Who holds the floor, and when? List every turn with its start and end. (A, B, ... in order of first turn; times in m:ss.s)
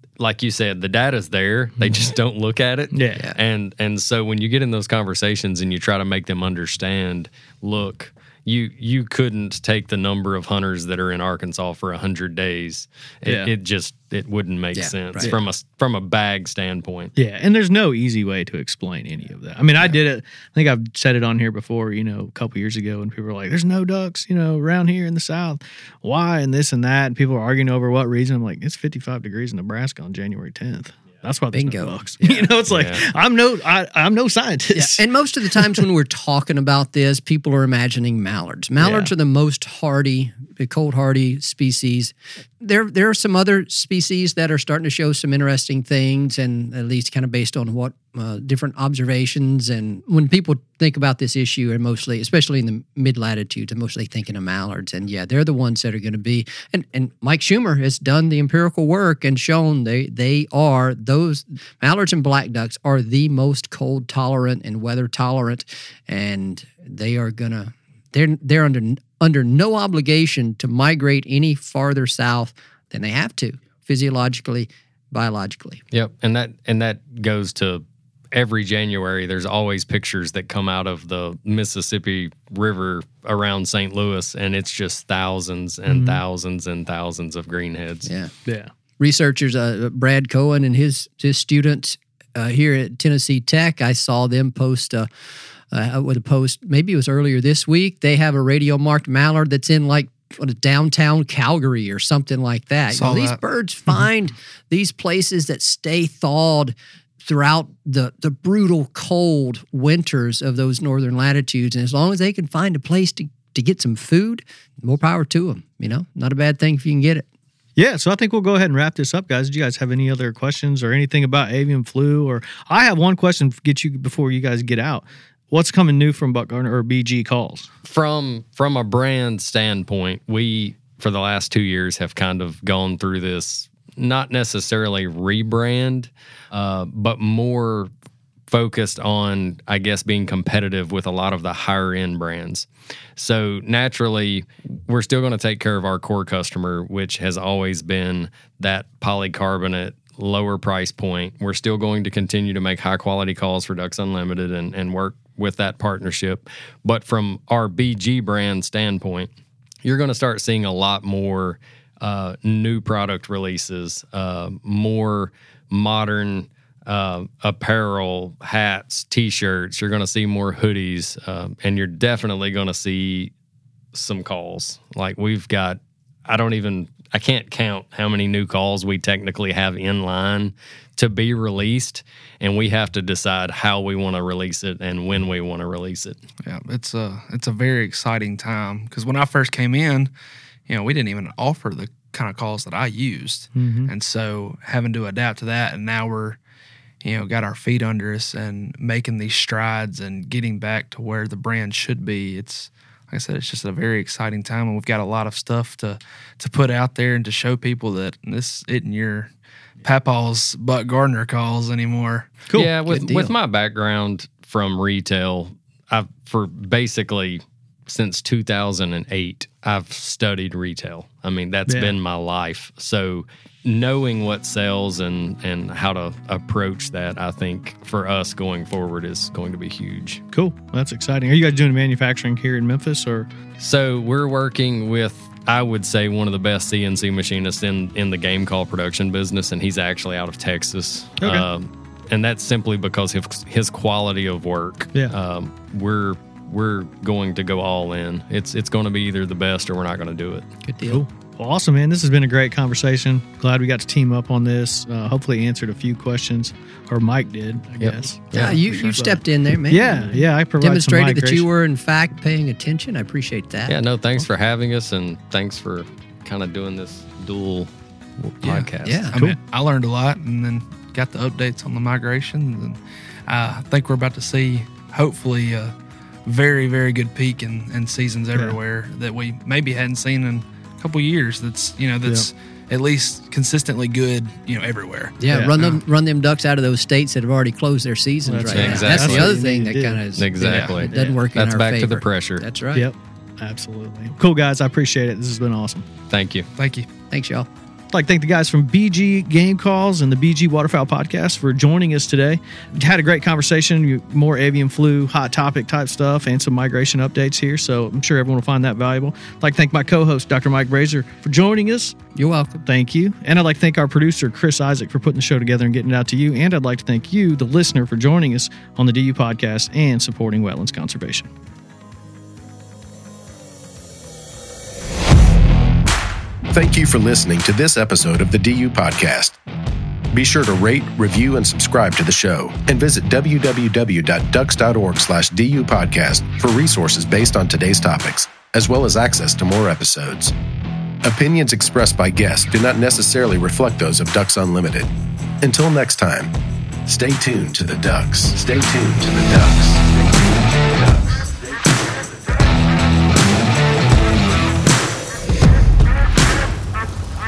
0:00.2-0:17.1 A
0:02.9-0:03.2 B
0:13.2-0:13.5 B
0:14.7-0:15.3 C
0:17.1-0:35.7 B
0:31.5-0:32.6 C
0:32.7-0:33.0 A
0:34.7-1:15.8 C
0:38.8-0:39.1 B
1:15.9-1:28.1 A
1:25.9-1:26.2 B
1:28.0-1:28.3 C
1:28.4-1:28.7 B
1:29.0-1:35.1 C
1:35.7-1:46.7 C
1:42.9-1:43.4 D
1:47.2-1:57.2 C
1:57.8-2:07.7 B
2:07.8-2:17.9 A
2:18.5-2:39.3 A
2:39.8-2:53.3 A
2:53.9-3:06.2 A
3:06.4-3:10.1 D
3:10.7-3:16.4 D
3:13.5-3:13.9 B
3:17.0-3:32.3 D
3:32.5-3:50.2 A
3:32.8-3:33.3 C
3:41.7-3:41.9 B
3:50.3-3:53.3 B
3:53.6-4:10.5 A
4:01.2-4:01.4 B
4:10.6-4:11.0 C
4:10.8-4:21.4 B
4:17.8-4:18.6 A
4:18.3-4:23.8 C
4:23.7-4:29.1 A
4:28.4-4:35.7 D
4:28.8-4:29.2 C
4:36.2-4:45.8 D
4:45.2-4:52.9 C
4:48.2-4:51.2 B
4:48.5-4:49.3 A
4:50.2-4:52.4 A
4:50.4-4:50.9 D
4:52.7-4:55.9 B
4:56.1-4:56.5 A
4:56.6-4:56.9 D
4:57.1-4:57.5 C
4:57.9-5:12.0 B
5:12.2-5:12.6 C
5:12.6-5:21.3 B
5:26.5-5:29.4 E
5:30.1-5:40.3 E
5:41.0-5:46.3 E
5:46.8-5:49.8 E